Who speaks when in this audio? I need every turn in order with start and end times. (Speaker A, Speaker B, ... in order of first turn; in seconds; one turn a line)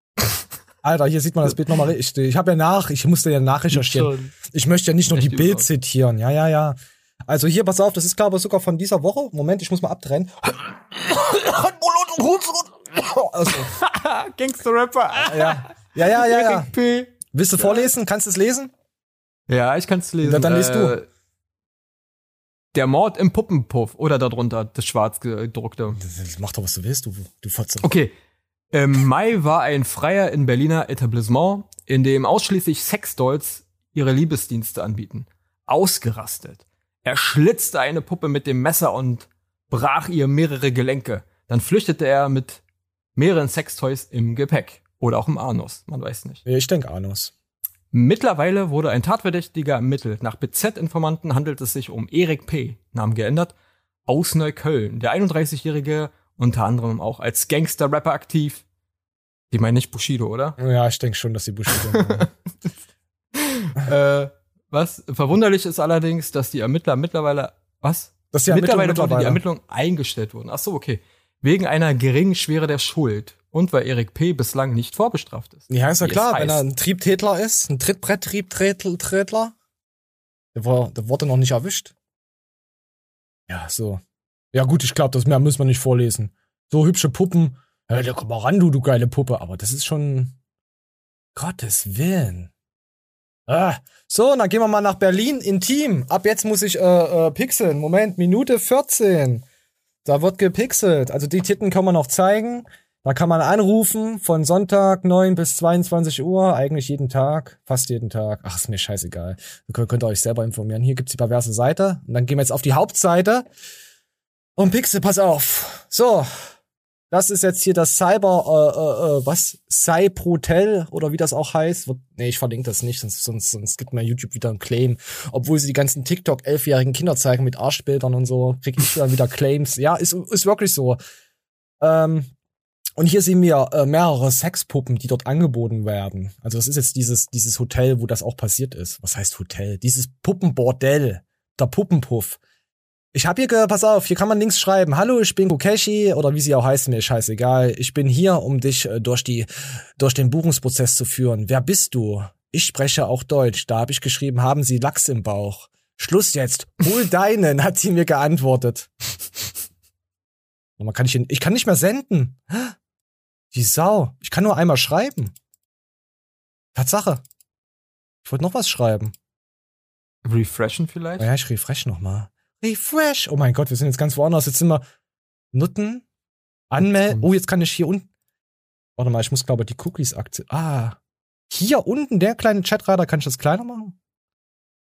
Speaker A: 0.8-13.7
Speaker B: 3.7-4.3
Speaker B: 5.1-5.7
Speaker B: 13.7-17.9
Speaker A: 15.2-16.7
Speaker A: 17.3-18.7
Speaker B: 19.5-21.1
Speaker A: 20.2-21.0
Speaker B: 22.7-26.0
Speaker A: 25.9-27.9
Speaker B: 27.8-28.1
Speaker B: 28.7-42.6
Speaker B: 43.2-46.4
Speaker A: 46.5-47.3
Speaker B: 47.9-53.5
Speaker B: 54.1-58.6
Speaker B: 59.5-60.6
Speaker A: 60.6-62.3
Speaker B: 61.8-62.3
Speaker B: 63.5-76.6
Speaker A: 68.3-69.4
Speaker A: 75.7-79.5
Speaker A: 80.5-81.9
Speaker A: 83.5-84.0
Speaker A: 84.5-90.3
Speaker A: 91.3-92.5
Speaker A: 93.5-99.5
Speaker A: 100.0-113.5
Speaker A: 114.6-116.5
Speaker A: 117.1-131.0
Speaker A: 131.8-132.3
Speaker A: 133.0-142.4
Speaker A: 143.1-158.9
Speaker A: 160.8-162.7
Speaker A: 163.5-165.3
Speaker A: 166.8-167.2
Speaker A: 168.2-169.1
Speaker B: 170.2-171.3
Speaker A: 171.2-174.8
Speaker A: 175.5-176.1
Speaker A: 176.7-178.1
Speaker B: 176.8-177.3
Speaker A: 179.0-181.0
Speaker A: 181.5-184.0